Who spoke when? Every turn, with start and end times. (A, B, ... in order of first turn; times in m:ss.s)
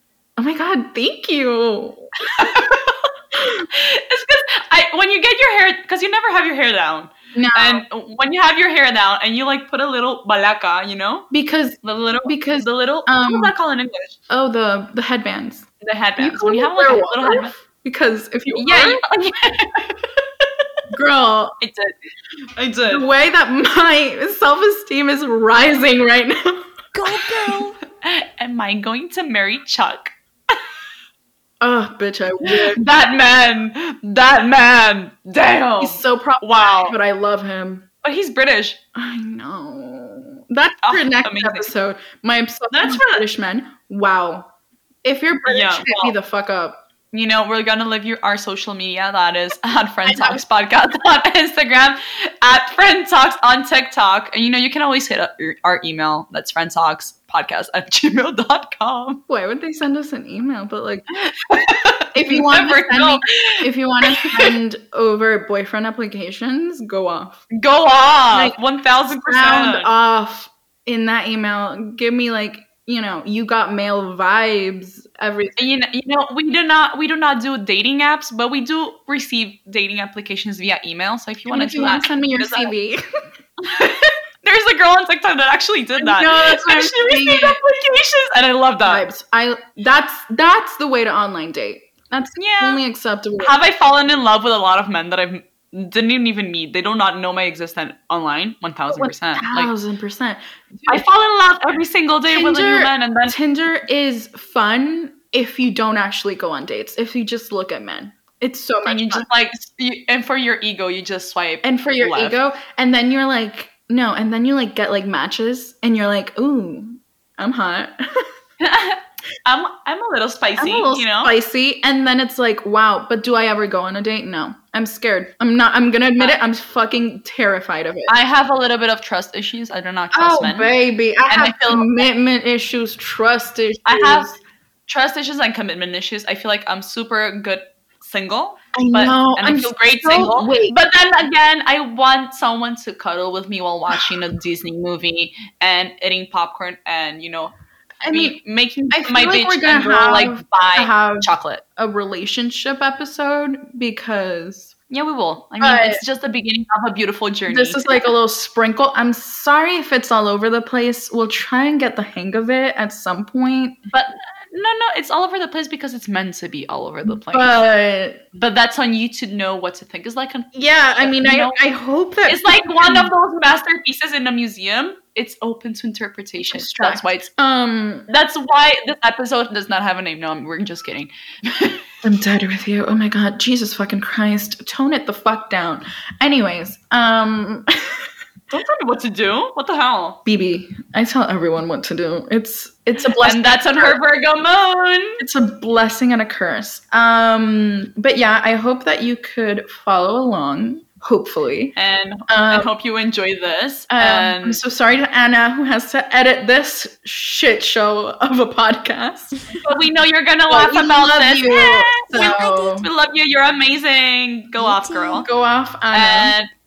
0:00.4-0:02.7 A
0:02.2-0:11.3 B
0:03.3-0:03.6 A
0:07.3-0:07.8 A
0:11.3-0:13.5 A
0:11.8-0:14.2 B
0:14.3-0:15.7 A
0:15.8-0:17.5 B
0:16.2-0:19.0 A
0:18.5-0:20.1 B
0:20.9-0:21.6 A
0:21.6-0:21.9 B
0:22.5-0:23.0 B
0:22.9-0:26.7 A
0:27.0-0:27.8 C
0:27.1-0:30.6 B
0:31.6-0:32.8 A
0:32.4-0:36.9 B
0:35.8-0:37.9 A
0:38.0-0:38.8 B
0:38.9-0:44.5 A
0:40.8-0:41.7 B
0:42.7-0:43.2 B
0:45.0-0:46.8 A
0:45.4-0:46.1 B
0:47.1-0:59.2 B
0:50.0-0:50.4 A
0:59.3-1:01.1 A
1:01.1-1:04.5 B
1:02.1-1:07.4 A
1:07.5-1:09.9 B
1:08.3-1:08.6 A
1:09.1-1:15.6 A
1:15.6-1:22.7 B
1:21.5-1:23.0 A
1:23.6-1:29.0 B
1:26.0-1:27.6 A
1:28.8-1:33.6 A
1:32.4-1:32.8 B
1:33.4-1:39.7 B
1:38.9-1:41.0 A
1:40.9-1:43.4 B
1:42.3-1:49.2 A
1:48.8-1:52.4 B
1:51.6-1:58.3 A
1:58.6-2:01.3 B
2:00.6-2:08.1 A
2:08.1-2:10.7 B
2:10.1-2:14.4 A
2:11.3-2:12.0 B
2:13.8-2:14.3 B
2:14.9-2:27.5 B
2:18.7-2:20.7 A
2:28.0-2:28.4 A
2:28.0-2:31.6 B
2:28.9-2:34.7 A
2:34.9-2:38.0 B
2:35.6-2:36.0 A
2:37.5-2:43.8 A
2:43.9-2:47.6 B
2:47.1-2:48.2 A
2:48.3-2:51.6 B
2:50.5-2:53.1 A
2:52.3-2:57.3 B
2:56.4-2:58.1 A
2:58.1-3:01.8 B
3:02.0-3:08.1 A
3:08.5-3:10.2 B
3:10.2-3:14.0 A
3:13.2-3:15.2 B
3:15.2-3:21.7 A
3:21.8-3:24.6 B
3:22.3-3:22.7 A
3:23.9-3:29.4 A
3:29.5-3:35.3 B
3:30.5-3:32.9 A
3:32.1-3:32.8 C
3:34.7-3:35.2 C
3:34.7-3:36.4 A
3:35.9-3:36.5 B